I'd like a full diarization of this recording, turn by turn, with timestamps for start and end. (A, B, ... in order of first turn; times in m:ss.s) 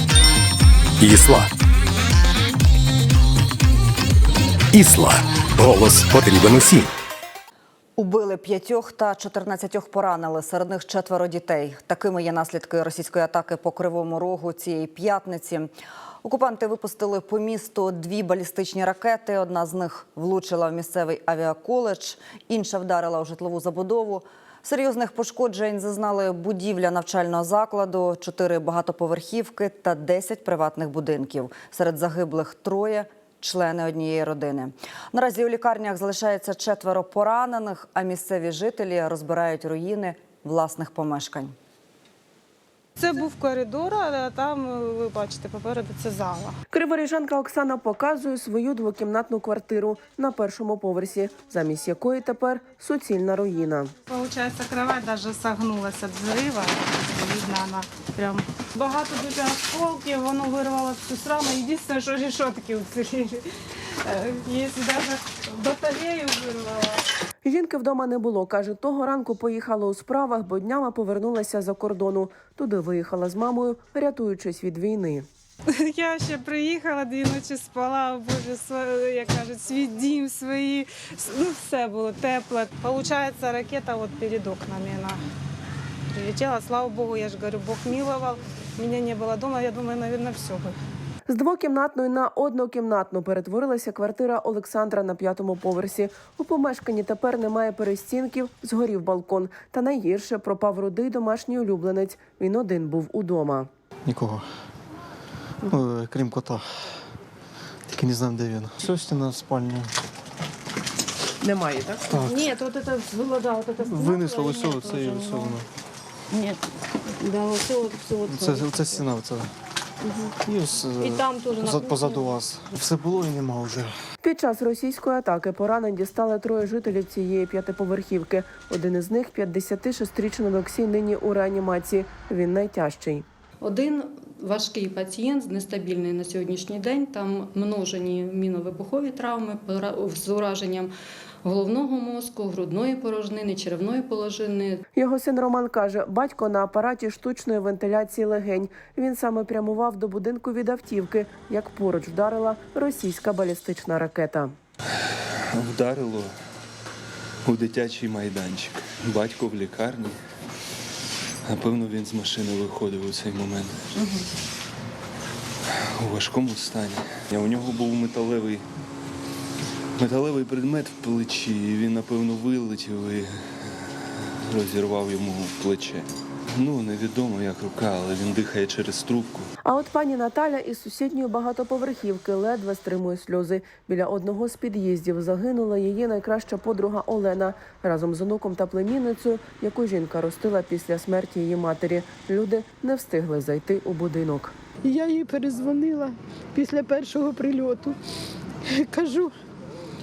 0:01.0-0:01.5 A
0:04.7-0:06.8 A
0:08.0-0:41.5 B
0:43.0-0:46.6 C
0:46.7-0:53.9 D
0:54.1-1:03.5 C
1:04.0-1:07.0 C
1:07.4-1:15.3 D
1:15.7-1:25.2 C
1:26.1-1:30.8 C
1:31.3-1:43.7 D
1:44.0-1:44.4 E
1:45.7-1:46.8 E
1:47.9-1:49.9 E
1:51.4-1:52.2 D
1:52.1-1:52.3 E
1:52.3-1:55.6 C
1:53.8-1:55.6 E
1:57.2-1:59.0 C
1:58.3-1:59.5 E
2:00.4-2:03.9 E
2:01.0-2:02.3 C
2:04.2-2:13.2 D
2:13.6-2:20.9 F
2:21.4-2:24.8 F
2:25.0-2:34.5 D
2:35.5-2:36.3 G
2:37.4-2:40.2 G
2:41.4-2:43.8 G
2:46.0-2:48.6 G
2:50.0-2:53.7 G
2:54.5-2:59.5 G
2:59.6-3:14.6 D
3:14.8-3:18.0 H
3:18.6-3:19.3 H